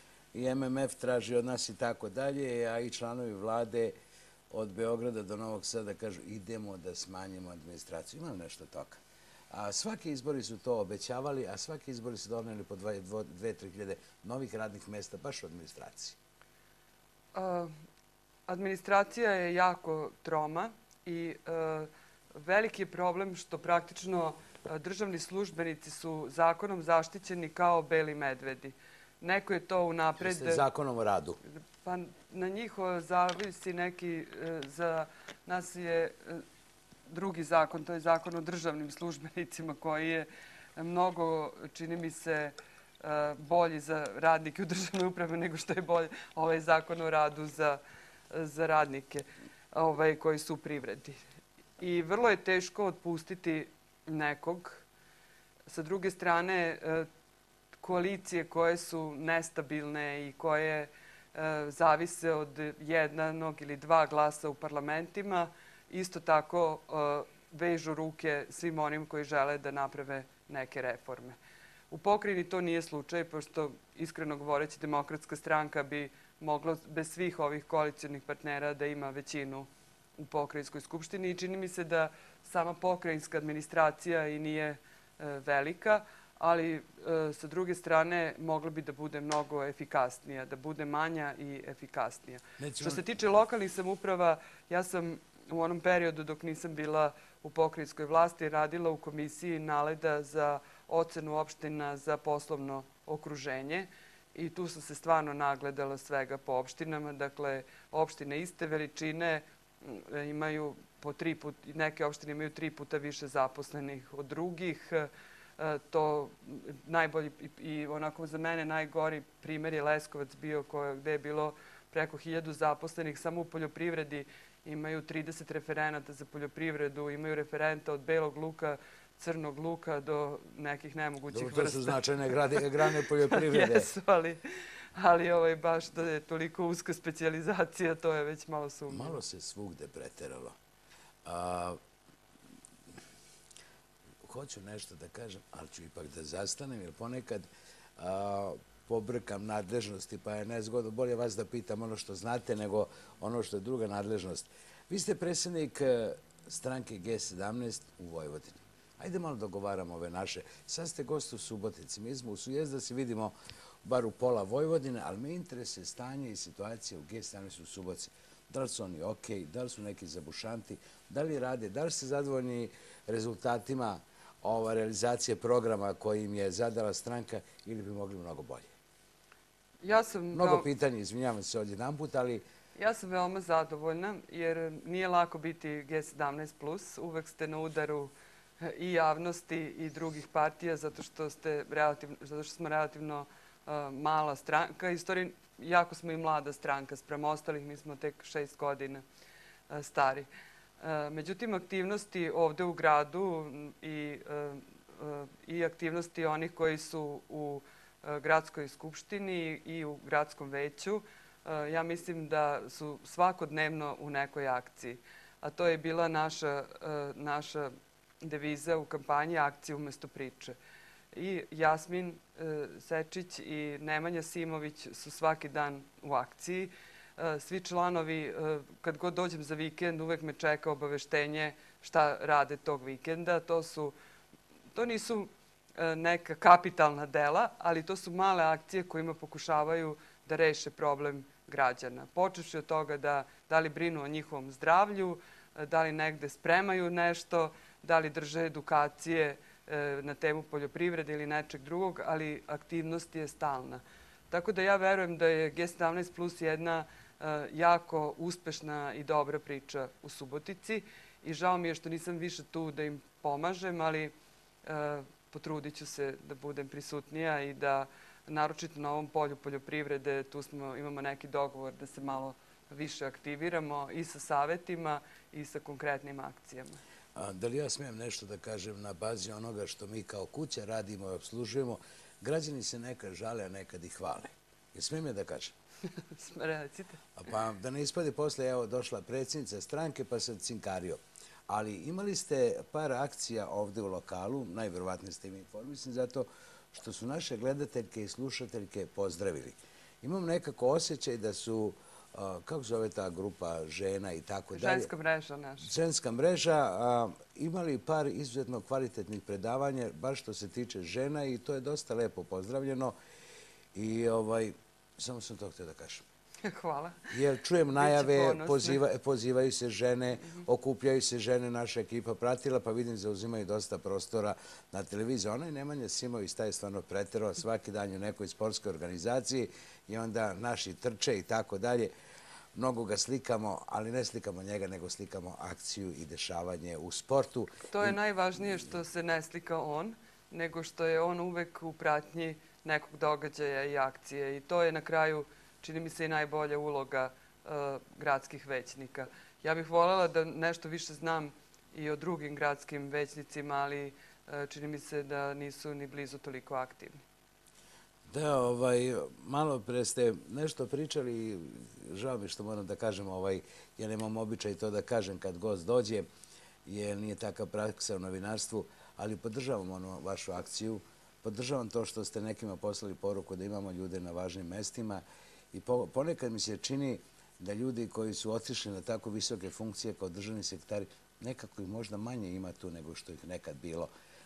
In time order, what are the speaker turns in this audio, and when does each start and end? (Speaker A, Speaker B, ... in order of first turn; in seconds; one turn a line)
Speaker A: 0.3-3.9
Speaker A: 4.5-16.2
Speaker B: 17.3-17.7
Speaker B: 18.5-30.6
Speaker A: 30.2-31.4
Speaker B: 31.6-36.4
Speaker B: 37.1-47.8
Speaker B: 48.3-51.2
Speaker B: 51.8-54.8
Speaker B: 55.7-57.1
Speaker B: 57.8-71.4
Speaker B: 71.9-139.2
Speaker A: 92.6-93.0
Speaker A: 131.3-133.9
Speaker A: 138.9-140.6
Speaker A: 141.2-141.8
Speaker A: 144.2-178.7
Speaker B: 179.8-180.7
Speaker A: 180.3-182.4
Speaker B: 182.8-199.0
Speaker B: 199.7-200.3
Speaker B: 200.8-220.6
Speaker B: 221.1-233.9
Speaker B: 234.7-276.8
Speaker A: 277.2-285.6
Speaker B: 285.9-287.1
Speaker A: 287.1-304.9
Speaker B: 304.5-305.7
Speaker A: 305.6-312.9
Speaker A: 313.8-316.1
Speaker B: 316.4-317.1
Speaker A: 317.1-331.9
Speaker B: 317.8-318.8
Speaker A: 332.6-338.0
Speaker B: 337.7-357.0
Speaker A: 358.1-366.1
Speaker A: 366.7-383.9